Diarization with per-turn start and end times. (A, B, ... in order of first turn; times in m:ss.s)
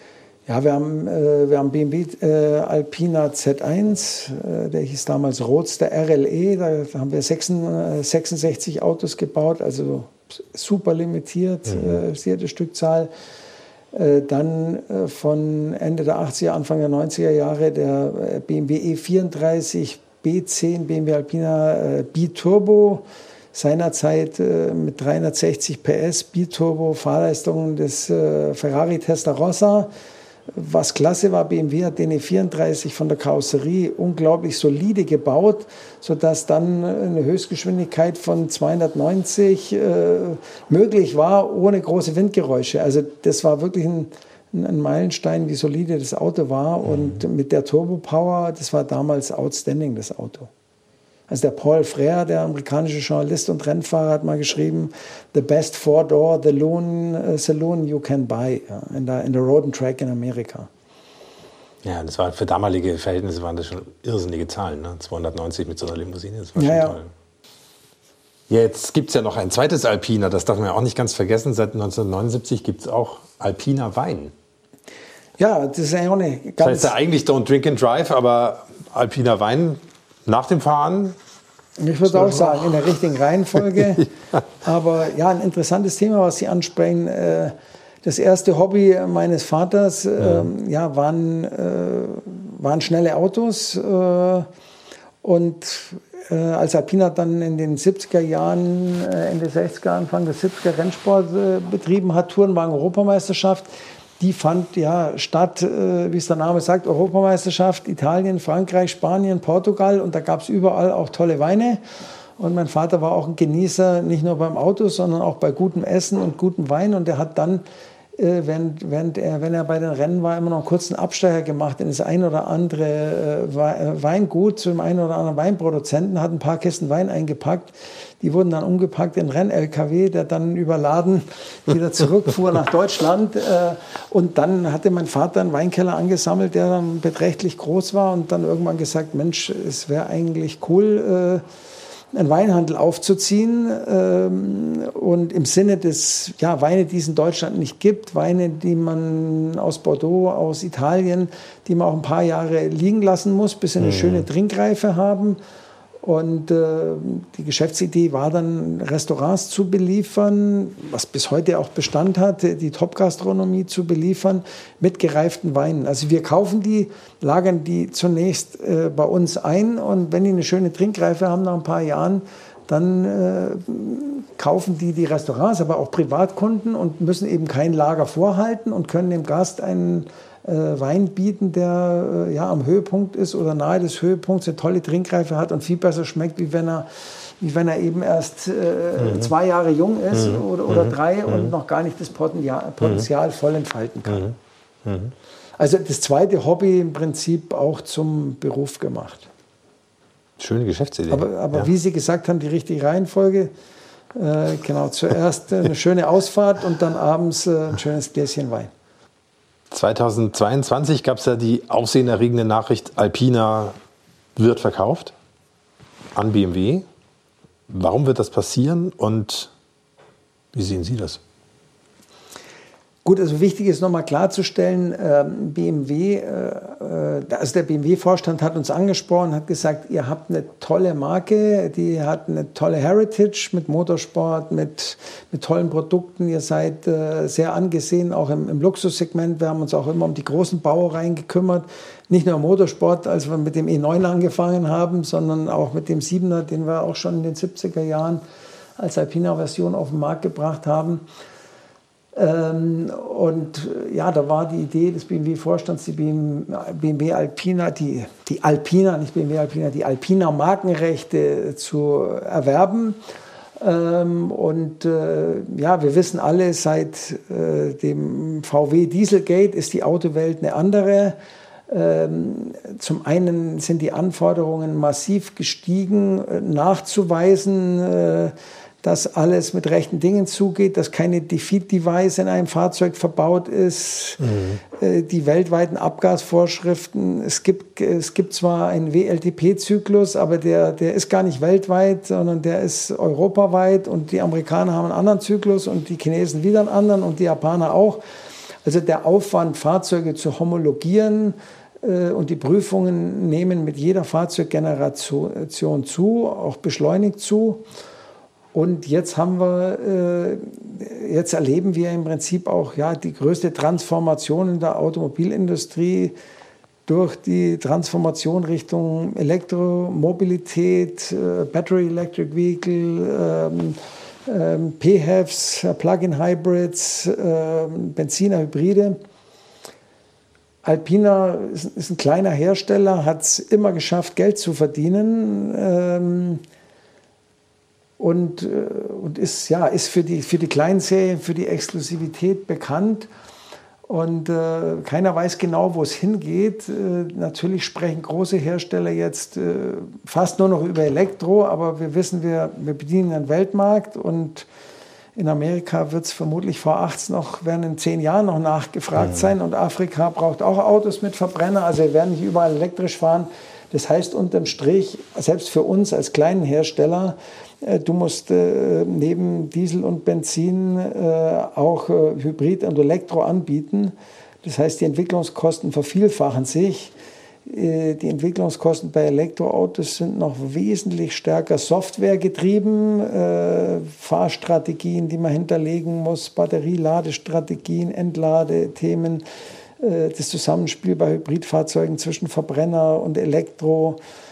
0:00.5-0:13.1 A
0:13.9-0:29.9 A
0:30.5-0:50.5 A
0:51.3-1:00.7 A
1:01.8-1:07.1 B
1:06.6-1:07.0 A
1:08.5-1:14.3 B
1:15.4-1:16.9 A
1:16.6-1:21.2 B
1:21.8-1:34.5 A
1:22.0-1:22.6 B
1:30.2-1:30.5 B
1:35.2-1:51.8 A
1:52.4-1:57.6 A
1:58.2-2:21.4 A
2:22.1-2:35.4 A
2:33.8-2:34.2 B
2:36.0-3:14.3 A
3:09.0-3:09.3 B
3:10.1-3:11.5 B
3:14.1-3:15.1 B
3:15.6-3:19.3 A
3:20.4-3:21.7 B
3:21.1-3:23.5 A
3:24.1-3:28.7 A
3:29.7-3:33.8 B
3:34.4-3:35.1 B
3:36.1-3:36.8 B
3:37.7-3:39.5 B
3:40.5-3:41.2 B
3:43.0-4:08.2 A
4:08.8-4:11.0 A
4:12.1-4:23.0 A
4:23.6-4:31.2 A
4:31.7-4:58.0 A
4:44.2-4:44.6 B
4:58.6-5:07.6 A
5:08.5-5:16.1 A
5:16.9-5:29.0 A
5:30.6-5:36.4 A
5:38.0-5:43.1 A
5:43.8-5:54.5 A
5:55.1-6:29.2 A
6:29.8-6:34.0 A